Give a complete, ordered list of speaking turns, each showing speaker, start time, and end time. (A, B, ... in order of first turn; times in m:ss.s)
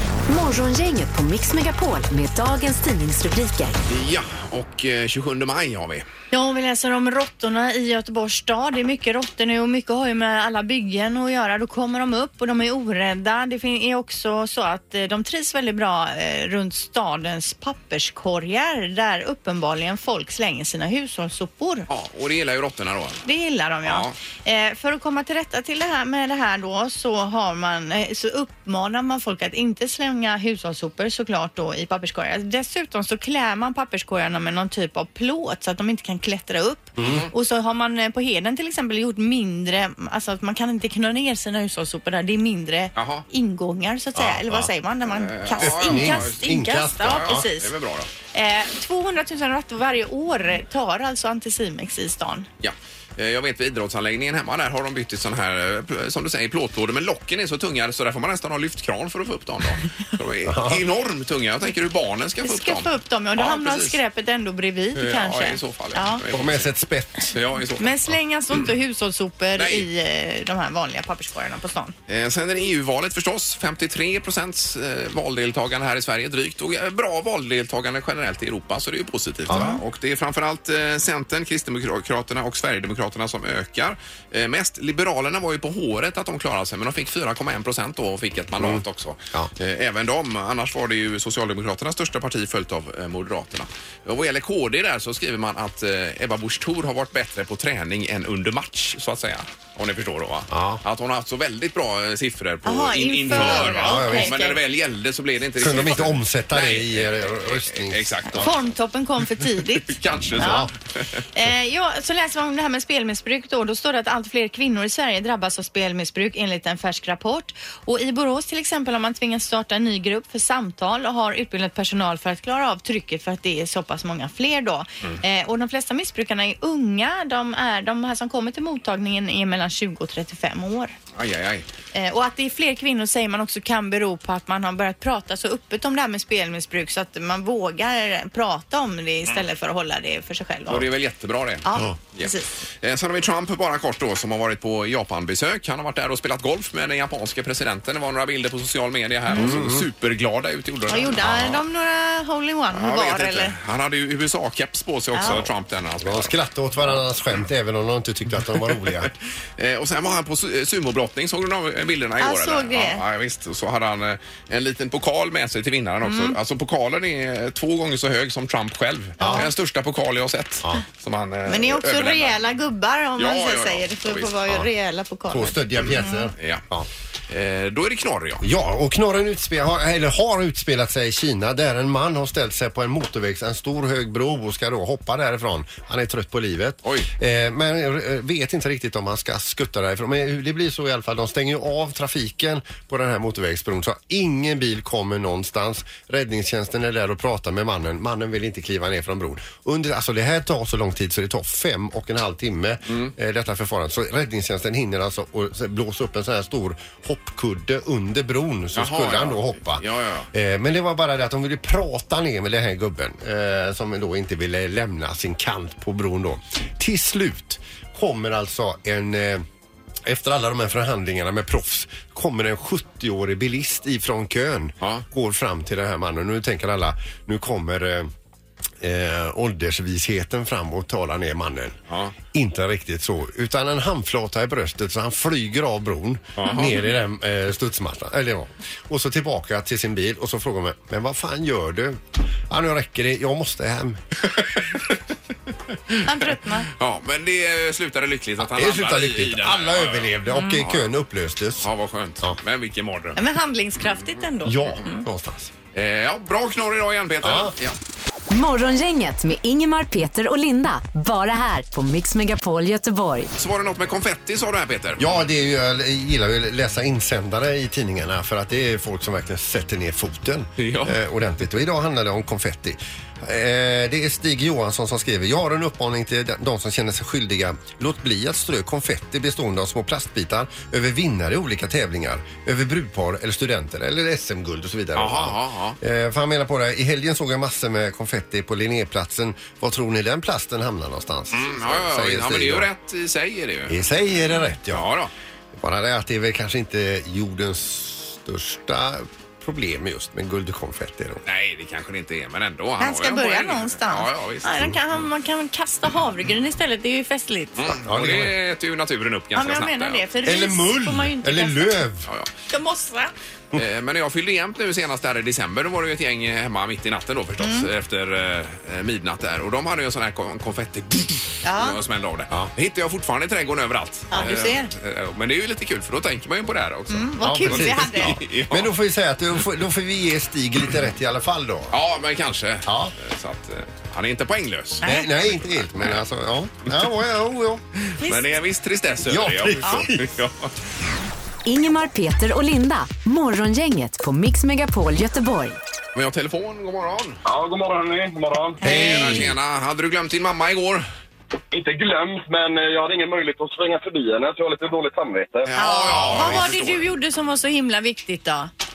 0:00.3-0:03.7 A
0:03.9-0:06.0 B
0:06.3-0:21.9 C
0:21.9-0:23.2 B
0:23.2-0:47.7 C
0:23.8-0:24.1 B
0:37.0-0:37.3 D
0:37.0-0:37.3 B
0:43.0-0:43.2 B
0:45.1-0:46.4 B
0:45.6-0:47.5 D
0:47.0-0:48.1 B
0:48.3-0:52.5 C
0:52.6-1:04.0 B
1:00.4-1:00.8 D
1:02.4-1:06.2 C
1:04.9-1:06.7 B
1:06.3-1:07.4 D
1:07.3-1:07.9 B
1:07.8-1:11.9 C
1:09.6-1:09.9 B
1:12.1-1:48.5 B
1:19.5-1:19.8 D
1:28.6-1:29.5 D
1:40.5-1:40.8 D
1:42.6-1:44.6 C
1:43.3-1:44.3 D
1:45.6-1:48.5 D
1:48.3-1:50.7 C
1:49.8-1:50.7 B
1:50.4-1:50.7 D
1:51.3-2:10.9 C
2:11.1-2:11.6 B
2:11.9-2:20.9 C
2:20.7-2:22.3 B
2:21.6-2:22.4 C
2:22.8-2:31.6 B
2:29.3-2:29.9 D
2:30.9-2:33.5 C
2:32.7-2:36.3 B
2:35.1-2:35.4 C
2:36.0-2:39.1 D
2:39.6-2:52.4 B
2:42.2-2:43.0 C
2:46.0-2:46.4 C
2:49.2-2:49.5 C
2:49.2-2:49.5 D
2:51.5-2:56.3 C
2:53.2-2:54.3 B
2:55.3-2:56.9 D
2:56.4-2:56.6 B
2:57.3-2:58.4 B
2:58.4-3:39.4 D
3:06.8-3:07.1 B
3:22.9-3:23.1 B
3:28.7-3:30.3 B
3:40.0-3:48.1 D
3:48.8-3:51.8 D
3:52.3-4:04.0 D
3:56.4-3:56.8 B
4:04.3-4:05.0 B
4:06.0-4:06.7 C
4:06.7-4:10.9 B
4:08.4-4:11.7 D
4:11.6-4:13.2 B
4:13.2-4:15.0 C
4:14.4-4:15.5 D
4:15.7-4:17.8 B
4:17.2-4:17.5 D
4:18.3-4:23.3 A
4:23.4-4:25.1 B
4:25.0-4:52.7 D
4:30.6-4:31.0 B
4:44.9-4:45.8 B
4:51.3-4:53.8 B
4:53.7-4:54.9 D
4:54.7-4:55.1 B
4:55.5-5:01.2 D
5:01.2-5:04.5 B
5:02.8-5:07.7 C
5:07.6-5:10.0 B
5:07.9-5:08.3 D
5:09.3-5:11.8 C
5:10.2-5:12.1 D
5:12.5-5:13.1 C
5:13.5-5:28.7 B
5:17.4-5:17.7 C
5:21.4-5:21.8 C
5:24.1-5:24.7 C
5:26.9-5:28.2 C
5:27.2-5:31.7 D
5:31.7-5:36.0 B
5:32.6-5:32.9 D
5:34.8-5:37.6 D
5:38.0-5:40.5 B
5:39.1-5:40.1 D
5:41.4-5:45.6 A
5:45.9-5:47.2 B
5:47.2-5:48.6 E
5:48.6-5:49.3 C
5:48.6-5:50.8 B
5:48.6-5:49.3 D
5:51.5-5:55.5 E
5:55.4-5:56.9 B
5:55.6-5:58.5 C
5:55.9-5:56.4 D